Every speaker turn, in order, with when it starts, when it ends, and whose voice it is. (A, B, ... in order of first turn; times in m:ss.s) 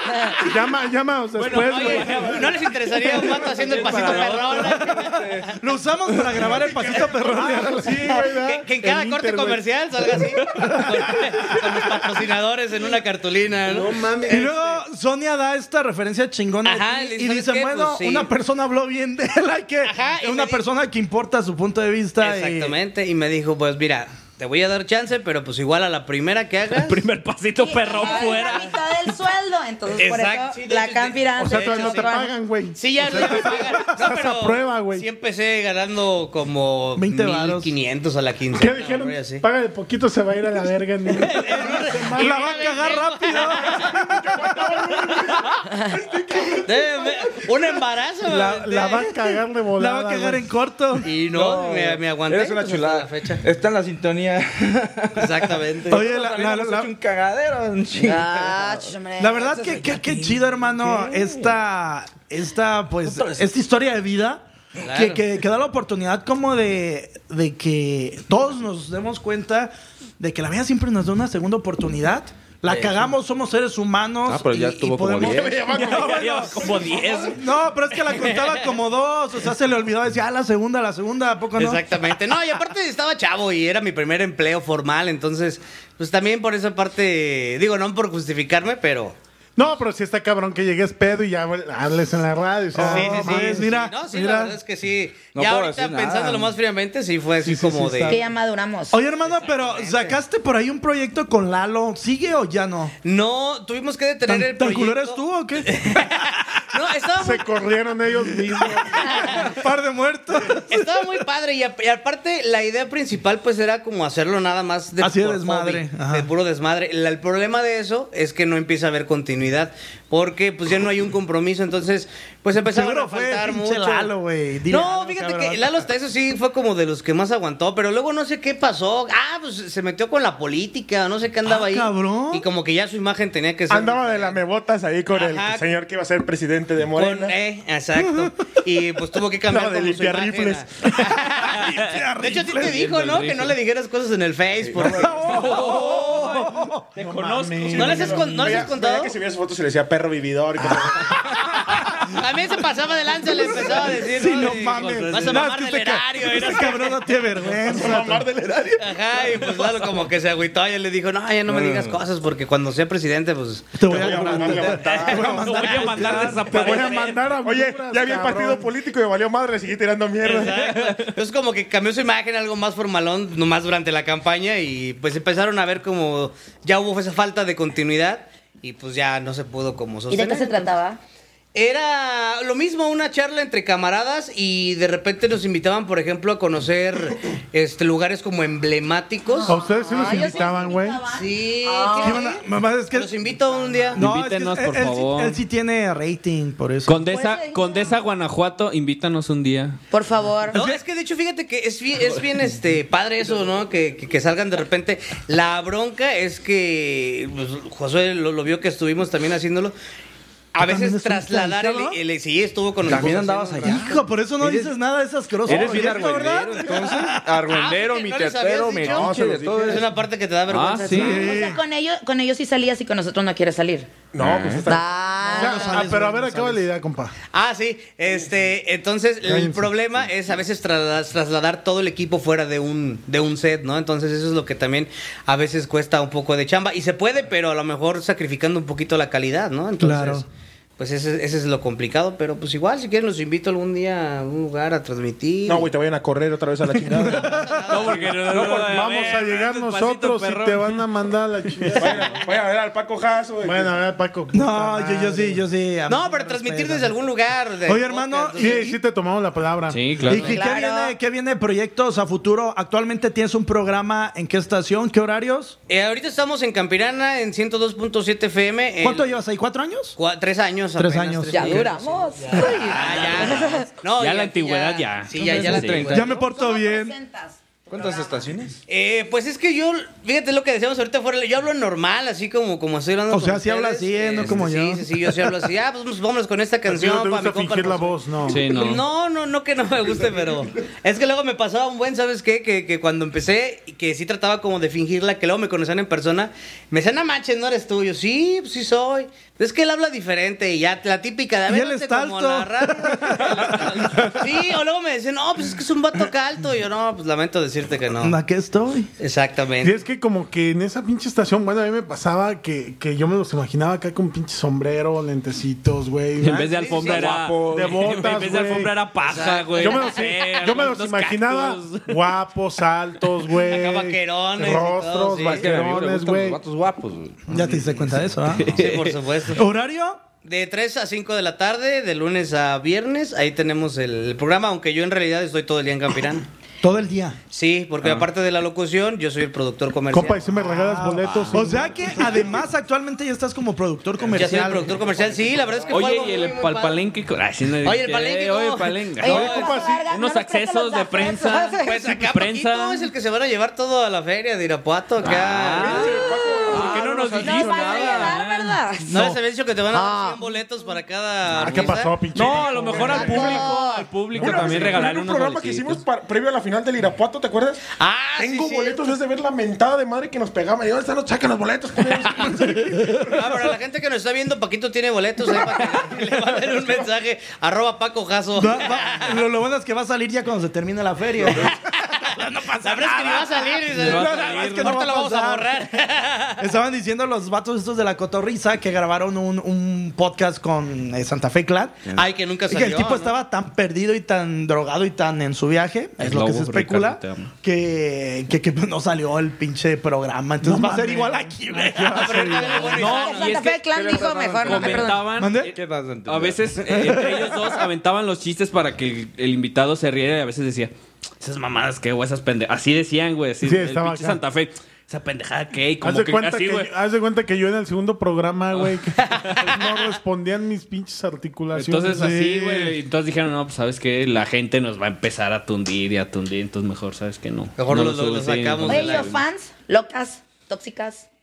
0:00.4-0:02.5 A
0:01.4-0:02.7 B
0:01.5-0:05.5 C
0:03.4-0:04.9 B
0:03.8-0:04.3 D
0:04.6-0:08.2 E
0:04.9-0:05.5 D
0:06.4-0:07.5 F
0:07.1-0:09.6 A
0:08.2-0:14.1 C
0:13.6-0:14.8 A
0:14.2-0:22.8 E
0:16.6-0:18.3 C
0:19.8-0:20.6 C
0:22.2-0:27.0 C
0:26.7-0:29.2 B
0:27.6-0:32.3 G
0:28.0-0:28.4 C
0:29.9-0:32.1 C
0:31.4-0:35.0 A
0:32.8-0:39.4 C
0:33.1-0:33.9 E
0:37.0-0:37.7 E
0:38.5-0:42.5 A
0:41.1-0:43.9 C
0:42.2-0:44.6 E
0:43.6-0:47.5 F
0:46.6-0:49.2 C
0:48.2-0:50.5 A
0:49.8-0:51.1 E
0:51.0-0:53.4 C
0:51.3-0:58.9 D
0:55.2-0:56.1 C
0:55.9-0:56.9 E
0:58.0-1:00.0 G
0:59.2-1:16.7 E
1:00.1-1:01.6 D
1:03.0-1:03.5 D
1:04.8-1:05.2 C
1:12.7-1:13.1 D
1:14.2-1:15.6 D
1:15.2-1:17.4 F
1:15.6-1:17.4 B
1:17.2-1:21.8 E
1:18.1-1:18.6 C
1:21.6-1:29.1 C
1:29.6-1:33.7 A
1:32.7-1:34.5 E
1:32.8-1:38.2 C
1:35.3-1:36.5 D
1:37.5-1:37.9 E
1:37.5-1:38.0 A
1:38.0-1:39.0 G
1:38.9-1:42.9 E
1:39.2-1:40.2 C
1:43.0-1:47.6 C
1:44.3-1:46.2 E
1:47.2-1:49.4 A
1:48.9-1:49.5 C
1:49.2-1:51.0 E
1:50.7-2:04.1 C
1:55.0-1:56.3 E
2:02.6-2:05.8 E
2:04.7-2:14.4 C
2:11.4-2:12.4 E
2:13.7-2:17.3 F
2:15.1-2:15.7 C
2:16.9-2:21.7 C
2:18.0-2:18.3 E
2:19.5-2:20.6 F
2:20.9-2:22.8 E
2:22.2-2:25.6 C
2:22.6-2:23.5 B
2:24.7-2:25.1 F
2:24.7-2:26.8 E
2:25.2-2:28.0 B
2:27.0-2:28.6 A
2:27.6-2:31.5 F
2:27.7-2:29.1 C
2:32.0-2:37.1 C
2:33.2-2:38.3 E
2:34.6-2:35.4 B
2:37.5-2:39.6 F
2:38.8-2:46.1 C
2:41.5-2:42.0 D
2:43.7-2:46.5 E
2:43.9-2:45.4 F
2:45.2-2:47.2 B
2:46.5-2:48.7 A
2:47.4-2:50.8 F
2:50.2-3:00.6 C
2:50.8-2:51.1 B
3:00.1-3:01.0 G
3:01.5-3:10.3 C
3:09.2-3:12.2 G
3:09.4-3:11.0 A
3:11.1-3:14.0 C
3:12.0-3:13.1 E
3:13.9-3:15.4 B
3:13.9-3:17.0 E
3:16.8-3:19.8 B
3:17.1-3:18.0 G
3:19.9-3:20.6 G
3:20.5-3:29.7 C
3:30.6-3:34.0 C
3:30.6-3:32.0 E
3:32.8-3:34.7 D
3:33.6-3:37.2 E
3:35.4-3:39.9 D
3:37.5-3:41.4 C
3:38.8-3:39.8 F
3:40.5-3:41.3 B
3:40.9-3:41.6 E
3:41.0-3:43.9 G
3:44.1-3:44.8 F
3:44.2-3:44.7 D
3:44.6-3:45.9 G
3:45.2-3:46.6 E
3:45.3-3:47.1 A
3:47.3-4:00.3 C
3:49.2-3:49.7 A
3:59.8-4:00.2 E
4:00.8-4:05.7 C
4:05.4-4:08.0 F
4:06.9-4:07.5 E
4:07.1-4:08.3 C
4:07.7-4:10.8 B
4:08.3-4:12.1 A
4:08.4-4:08.8 D
4:11.7-4:13.7 F
4:11.8-4:12.1 C
4:13.4-4:15.4 A
4:14.3-4:16.9 E
4:15.9-4:18.7 C
4:17.6-4:18.8 E
4:18.4-4:19.8 A
4:19.7-4:20.4 B
4:20.0-4:25.5 E
4:20.0-4:20.9 G
4:25.7-4:29.2 C
4:28.8-4:30.0 E
4:30.0-4:36.2 C
4:30.8-4:31.7 E
4:31.3-4:33.7 G
4:32.2-4:33.1 D
4:34.0-4:35.9 B
4:35.2-4:36.0 D
4:35.3-4:37.0 E
4:36.0-4:38.3 G
4:37.7-4:38.6 D
4:38.7-5:08.2 C
4:43.1-4:45.3 E
4:46.7-4:48.4 A
4:48.3-4:48.8 B
5:01.5-5:04.2 E
5:08.0-5:08.9 E
5:09.0-5:09.8 C
5:09.6-5:16.8 A
5:16.2-5:22.0 B
5:16.5-5:17.2 C
5:16.8-5:18.1 D
5:17.5-5:18.8 A
5:19.0-5:20.0 C
5:19.5-5:26.4 A
5:23.4-5:25.5 C
5:25.2-5:27.6 D
5:27.3-5:28.6 E
5:28.2-5:29.0 B
5:28.5-5:29.4 C
5:29.3-5:30.0 E
5:30.2-5:36.3 C
5:36.6-5:37.2 E
5:37.3-5:40.2 C
5:39.9-5:42.3 A
5:40.3-5:44.8 E
5:41.1-5:41.3 B
5:44.1-5:46.8 C
5:44.8-5:45.9 F
5:45.7-5:52.9 B
5:47.6-5:49.7 C
5:49.0-5:51.8 G
5:49.1-5:49.9 A
5:51.6-5:58.0 C
5:55.0-5:58.6 B
5:55.6-5:57.0 F
5:55.6-5:59.0 G
5:58.8-5:59.2 E
5:58.9-6:02.0 C
5:59.7-6:00.3 G
6:01.3-6:03.4 A
6:02.1-6:05.8 B
6:02.7-6:03.4 F
6:02.8-6:03.9 G
6:04.1-6:13.5 F
6:04.2-6:04.8 A
6:07.8-6:08.8 C
6:13.1-6:19.2 C
6:15.3-6:16.9 F
6:18.4-6:25.5 E
6:21.3-6:26.4 C
6:23.7-6:24.8 B
6:26.4-6:31.9 E
6:31.9-6:33.1 C
6:32.5-6:42.5 E
6:36.0-6:37.3 B
6:40.4-6:42.6 A
6:41.8-6:43.5 C
6:42.4-6:45.0 G
6:42.6-6:56.7 B
6:43.8-6:44.8 D
6:45.2-6:45.5 E
6:45.5-6:47.0 D
6:46.7-6:47.2 E
6:53.4-6:54.2 A
6:55.8-7:02.1 A
6:58.5-6:59.5 B
6:59.0-6:59.6 C
7:01.5-7:09.2 B
7:01.9-7:02.8 E
7:07.6-7:09.1 C
7:08.6-7:11.0 G